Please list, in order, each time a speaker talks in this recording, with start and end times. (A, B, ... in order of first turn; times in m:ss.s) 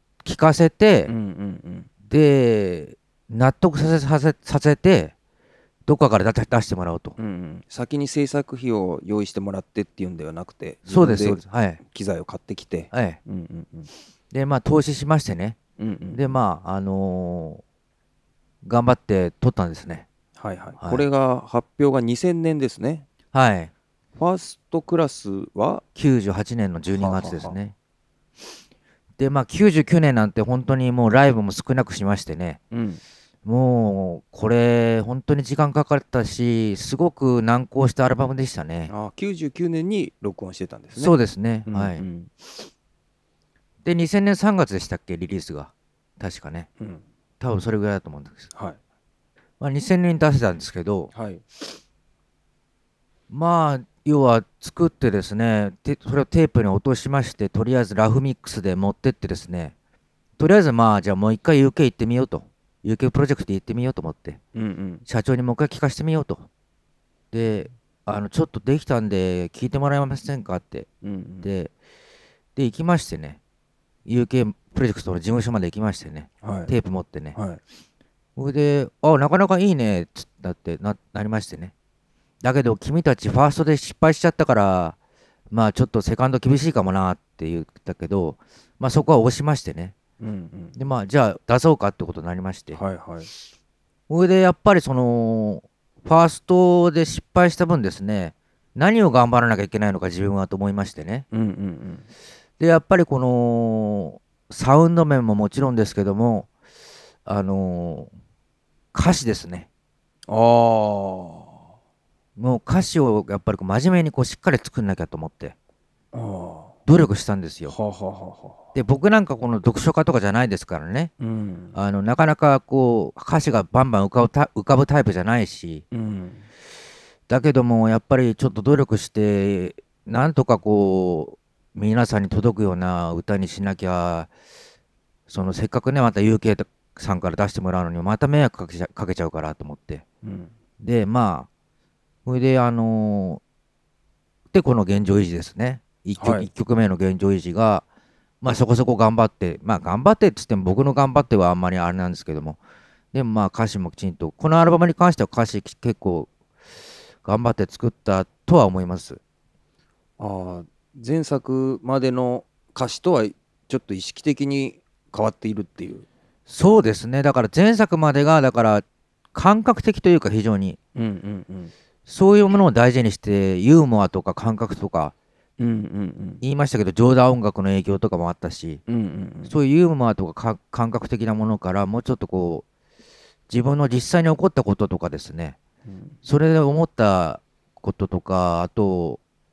0:00.2-0:01.1 A
0:01.1-0:01.9 B
0:02.1-0:05.1 A
0:05.9-0:07.2 A
0:07.2-0:13.9 B
0:10.9-0:11.8 A
0:12.9-0:13.2 A
0:14.3-0:15.6 A
0:15.8-0:16.4 B
0:16.1-0:17.6 A
0:18.6-0:20.1 A
0:20.4-0:23.1 B
0:20.8-0:21.0 A
0:23.3-0:23.7 A
0:24.2-0:25.8 B
0:26.0-0:27.7 A
0:26.9-0:27.6 B
0:29.2-0:32.6 A
0:32.7-0:33.0 B
0:33.4-0:38.9 A
0:38.9-0:41.1 B
0:41.0-0:42.0 A
0:41.7-0:42.3 B
0:43.8-0:46.7 A
0:47.4-0:48.5 A
0:48.5-0:48.8 B
0:49.6-0:51.1 A
0:51.1-0:51.4 B
0:53.3-0:59.7 A
1:00.4-1:04.4 A
1:04.6-1:05.0 B
1:05.1-1:06.5 A
1:07.3-1:10.9 A
1:11.0-1:11.5 B
1:11.4-1:11.7 A
1:12.6-1:13.4 A
1:14.1-1:17.4 A
1:16.4-1:16.7 B
1:17.4-1:17.6 B
1:18.4-1:21.7 A
1:22.4-1:25.0 A
1:25.5-1:30.0 A
1:30.2-1:30.8 B
1:30.8-1:32.8 A
1:32.7-1:33.3 B
1:34.1-1:41.2 A
1:41.3-1:42.0 B
1:42.6-1:46.5 A
1:47.3-1:48.1 A
1:48.9-1:49.7 A
1:50.3-1:51.5 B
1:52.4-1:55.6 A
1:56.1-1:56.7 B
1:56.9-1:57.7 A
1:57.7-1:58.7 B
1:58.7-2:01.1 A
2:01.2-2:01.8 B
2:01.7-2:05.8 A
2:05.9-2:06.4 B
2:07.3-2:14.3 A
2:15.3-2:20.0 A
2:20.2-2:20.5 B
2:20.8-2:21.5 A
2:22.2-2:23.4 A
2:24.5-2:27.8 A
2:26.2-2:26.5 B
2:28.4-2:32.6 A
2:33.1-2:36.3 A
2:37.2-2:39.2 A
2:40.2-2:46.1 B
2:46.5-2:48.8 A
2:49.4-2:50.8 A
2:51.0-2:51.7 B
2:52.1-2:55.1 A
2:55.6-2:56.4 B
2:56.4-2:58.8 A
2:58.9-2:59.5 B
2:59.5-3:02.6 A
3:03.5-3:05.6 A
3:05.9-3:06.2 B
3:06.2-3:09.2 A